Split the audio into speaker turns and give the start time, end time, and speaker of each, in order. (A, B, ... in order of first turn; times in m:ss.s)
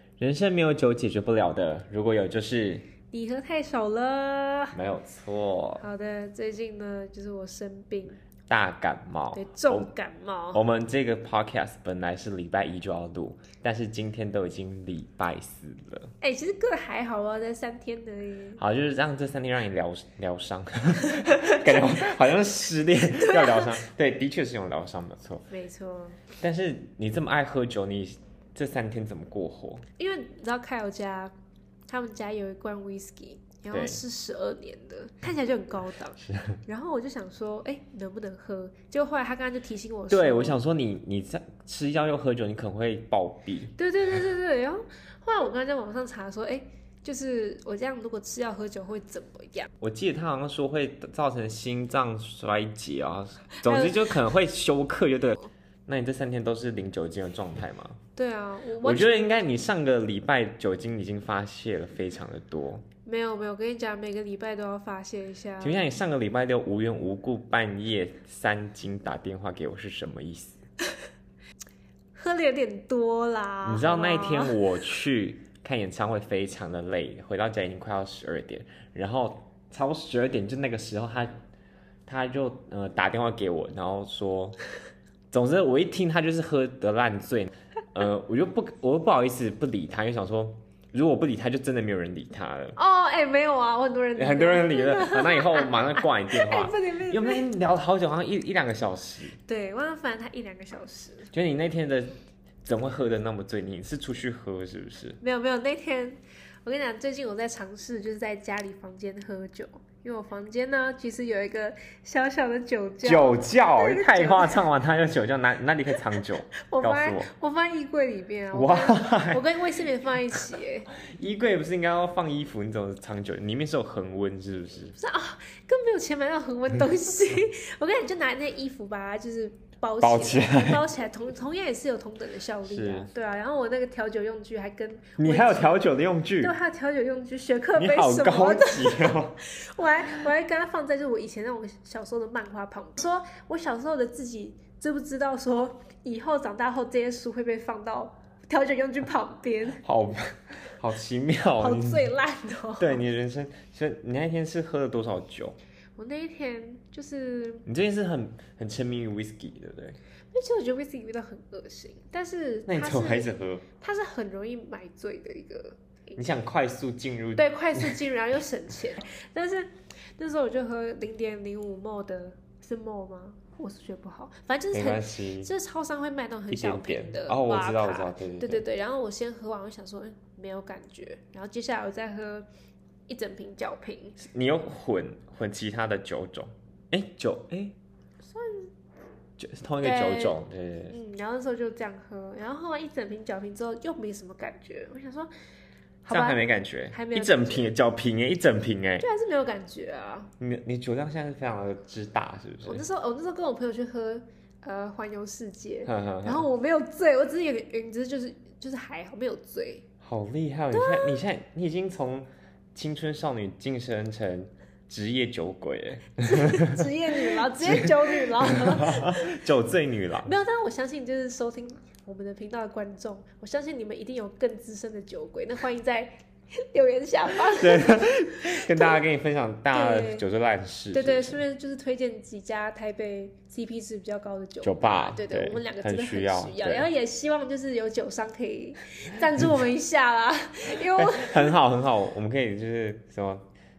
0:00.2-0:02.9 A
0:03.1-0:04.8 B
0:04.7-0:05.8 A
0:05.8-0:08.2 B
0:08.5-0:09.9 A
0:09.3-0:10.6 B
0:10.5-0:16.1 A
0:16.2-0:18.6 B
0:18.6-0:25.5 A
0:23.3-0:23.6 B
0:25.5-0:26.2 B
0:26.4-0:29.8 A
0:30.0-0:31.3 B
0:31.9-0:40.6 B
0:33.7-0:34.0 A
0:36.2-0:36.6 A
0:40.1-0:43.8 A
0:43.8-0:49.7 B
0:49.8-0:58.0 A
0:53.6-0:54.0 B
0:58.2-0:59.2 B
0:58.8-1:02.8 A
1:03.0-1:05.8 B
1:05.6-1:10.6 A
1:12.2-1:14.6 B
1:13.6-1:21.4 A
1:22.1-1:24.6 A
1:25.3-1:32.8 A
1:32.8-1:37.5 B
1:34.2-1:39.4 A
1:39.4-1:41.3 B
1:41.3-1:45.2 A
1:45.2-1:54.7 B
1:53.0-1:57.3 A
1:56.6-2:00.9 B
1:58.5-1:59.4 A
2:01.0-2:05.0 A
2:05.0-2:15.8 B
2:10.0-2:10.8 A
2:12.6-2:13.1 A
2:15.2-2:16.5 A
2:16.4-2:29.8 B
2:17.8-2:19.4 A
2:29.8-2:32.1 A
2:31.6-2:33.0 B
2:32.8-2:35.6 A
2:36.0-2:37.6 B
2:37.7-2:40.0 A
2:40.3-2:46.3 B
2:42.7-2:43.7 A
2:46.2-2:48.0 A
2:47.4-3:02.5 B
2:54.7-2:55.5 A
2:56.5-2:58.6 A
3:03.1-3:04.2 B
3:04.2-3:07.8 A
3:08.3-3:08.7 B
3:09.4-3:11.0 A
3:09.8-3:10.4 B
3:10.9-3:15.3 B
3:16.0-3:19.1 A
3:16.1-3:17.7 B
3:19.0-3:20.3 B
3:20.4-3:22.8 A
3:22.6-3:29.8 B
3:25.9-3:26.4 A
3:30.0-3:40.3 A
3:30.7-3:31.2 B
3:36.2-3:39.4 B
3:40.2-3:49.0 B
3:47.5-3:51.4 A
3:49.7-3:50.2 B
3:50.9-4:01.6 B
3:54.6-3:56.9 A
4:00.9-4:03.5 A